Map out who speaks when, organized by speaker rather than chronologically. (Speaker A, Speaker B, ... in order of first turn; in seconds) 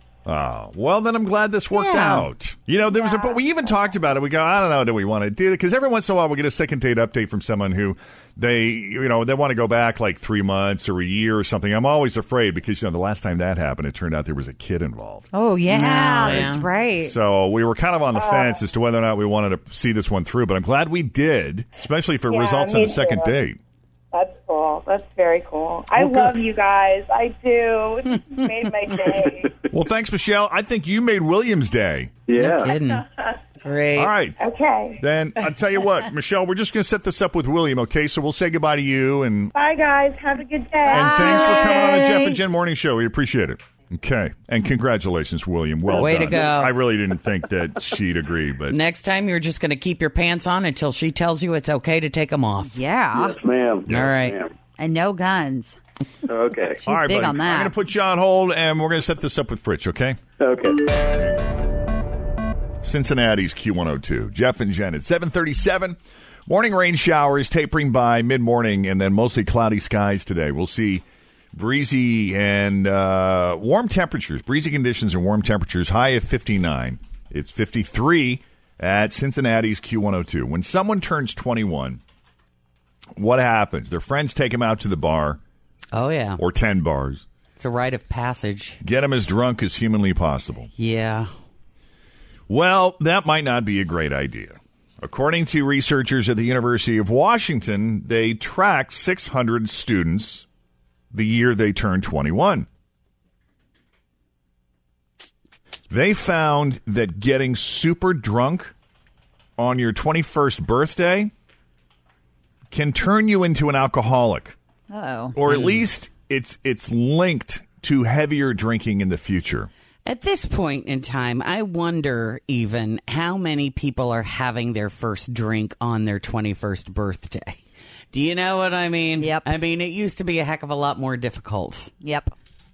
Speaker A: 0.2-15.3, 16.2-23.6, 26.0-26.3, 29.7-32.2, 34.0-34.4, 35.0-39.5, 40.9-48.8, 56.9-60.2, 62.8-82.0, 83.2-85.4, 86.4-87.2, 88.8-90.7, 92.5-100.5, 101.1-102.7, 105.9-108.7, 109.6-111.3, 112.7-114.5, 115.3-119.7
Speaker B: 1.7-2.2, 15.7-16.6, 32.3-33.0, 33.6-34.1, 45.9-46.7, 48.7-52.8, 53.9-54.4, 85.9-86.4, 87.6-88.8, 90.8-91.3, 115.5-115.7, 120.0-127.6, 128.1-131.9
Speaker C: 2.9-3.9, 18.1-18.6, 22.3-23.3, 24.1-29.5, 34.4-35.0, 39.5-41.6
Speaker D: 15.3-17.1, 40.9-42.4, 52.7-53.4, 54.8-55.8, 56.8-57.7, 114.9-115.4, 129.2-129.5, 132.0-132.3
Speaker E: 32.3-32.7, 53.1-54.5, 56.3-56.8, 60.4-60.8